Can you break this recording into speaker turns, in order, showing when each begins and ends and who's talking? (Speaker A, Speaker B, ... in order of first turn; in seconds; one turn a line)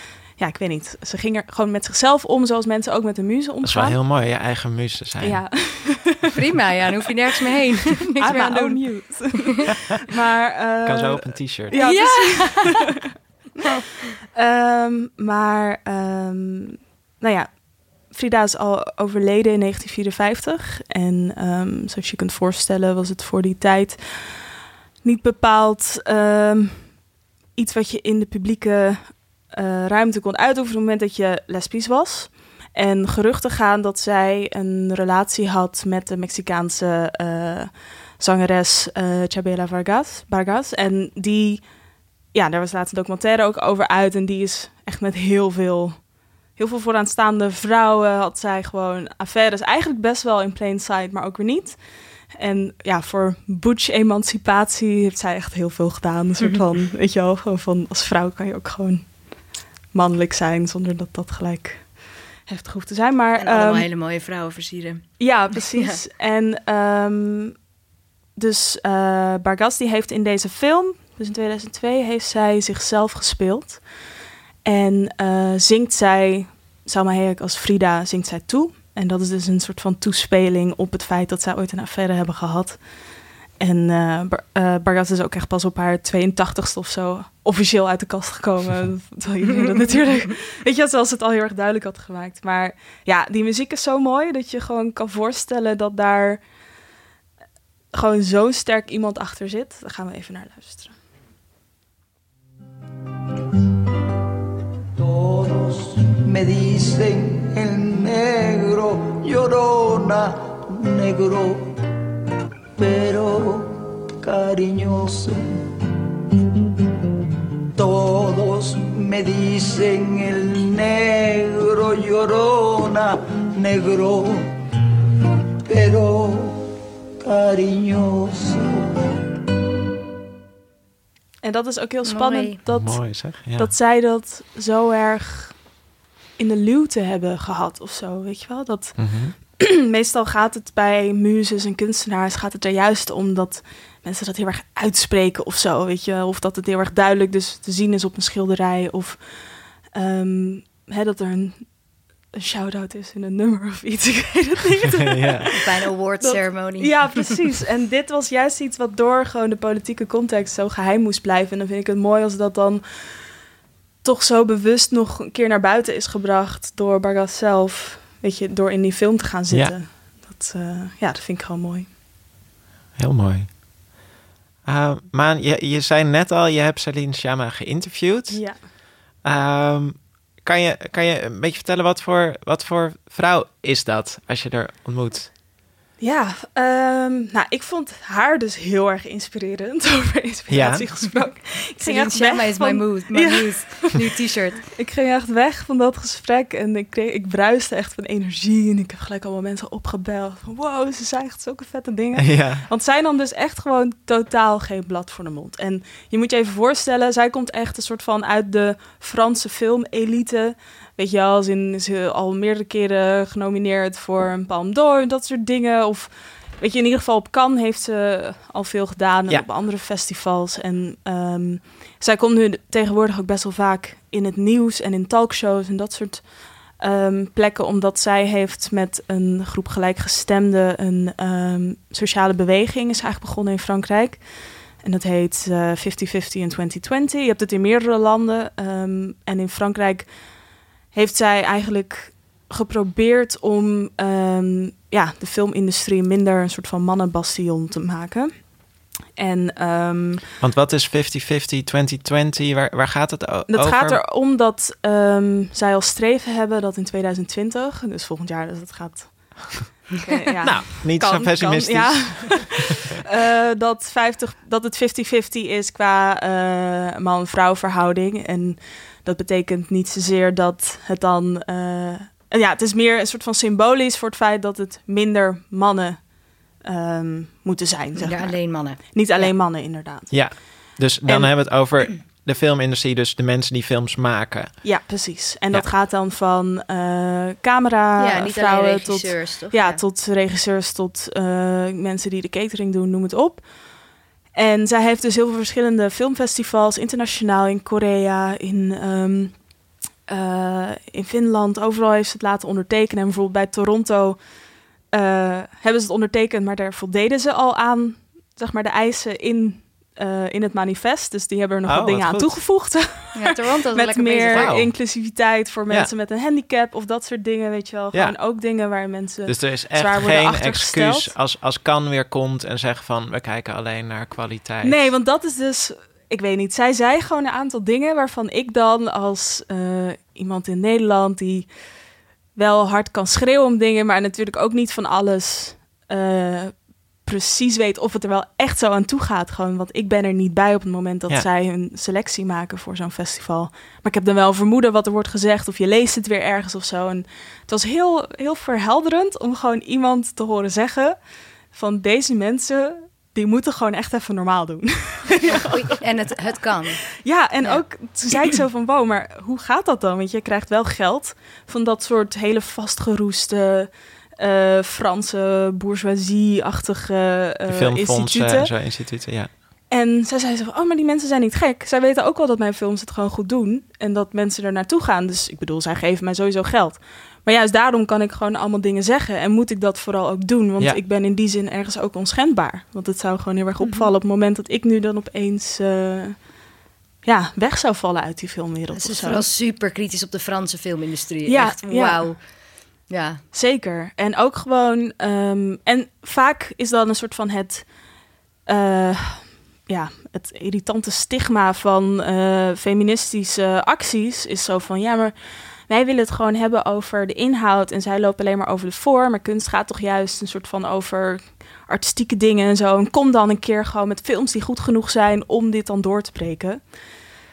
Speaker A: 0.3-4.0
Speaker B: 3.6-5.4
Speaker A: 5.2-6.3
Speaker C: 6.3-8.8
Speaker A: 8.2-12.9
Speaker B: 10.8-11.8
Speaker C: 11.7-12.7
Speaker A: 14.3-24.5
Speaker A: 25.0-27.0
Speaker A: 27.5-41.6
Speaker A: 42.3-46.0
Speaker A: 46.5-51.8
Speaker A: 52.3-59.3
Speaker A: 59.9-63.9
Speaker C: 63.4-66.0
Speaker A: 65.2-67.5
Speaker A: 68.3-73.8
Speaker A: 74.6-82.8
Speaker A: 83.6-96.4
Speaker A: 97.9-101.0
Speaker D: 105.0-111.7
Speaker D: 112.8-115.5
Speaker D: 117.7-124.4
Speaker D: 125.7-126.6
Speaker D: 127.2-128.9
Speaker A: 131.4-135.6
Speaker C: 132.1-132.6
Speaker B: 132.7-133.7
Speaker A: 136.4-149.2
Speaker B: 139.0-139.3
Speaker A: 149.9-151.7
Speaker A: 152.3-155.6
Speaker B: 155.0-155.5
Speaker C: 155.5-157.2
Speaker A: 156.2-163.1
Speaker A: 164.0-171.9
Speaker B: 173.0-173.6
Speaker B: 174.6-178.4
Speaker A: 178.3-178.6
Speaker B: 179.2-185.3
Speaker A: 186.0-194.0
Speaker B: 190.5-190.8
Speaker C: 191.8-194.6
Speaker A: 194.7-234.2
Speaker B: 202.2-202.7
Speaker A: 234.8-240.1
Speaker A: 240.9-248.6
Speaker A: 249.2-250.2
Speaker B: 250.4-254.0
Speaker A: 253.5-280.3
Speaker B: 260.4-262.6
Speaker C: 278.0-279.3
Speaker B: 280.1-284.7
Speaker A: 281.1-281.3
Speaker A: 284.6-293.5
Speaker C: 288.0-289.8
Speaker A: 294.3-299.4
Speaker A: 300.1-304.2
Speaker A: 304.9-321.1
Speaker B: 311.6-312.4
Speaker C: 313.1-314.5
Speaker B: 314.3-314.8
Speaker B: 319.3-324.9
Speaker A: 324.6-331.5
Speaker A: 332.3-351.0
Speaker A: 351.5-355.8
Speaker C: 355.3-356.8
Speaker A: 357.0-368.5
Speaker B: 367.5-369.3
Speaker A: 369.7-386.3
Speaker C: 383.6-383.9
Speaker A: 387.0-389.2
Speaker C: 388.7-392.3
Speaker A: 391.3-392.1
Speaker C: 392.9-393.2
Speaker A: 393.3-397.7
Speaker A: 398.4-405.1
Speaker A: 405.7-416.6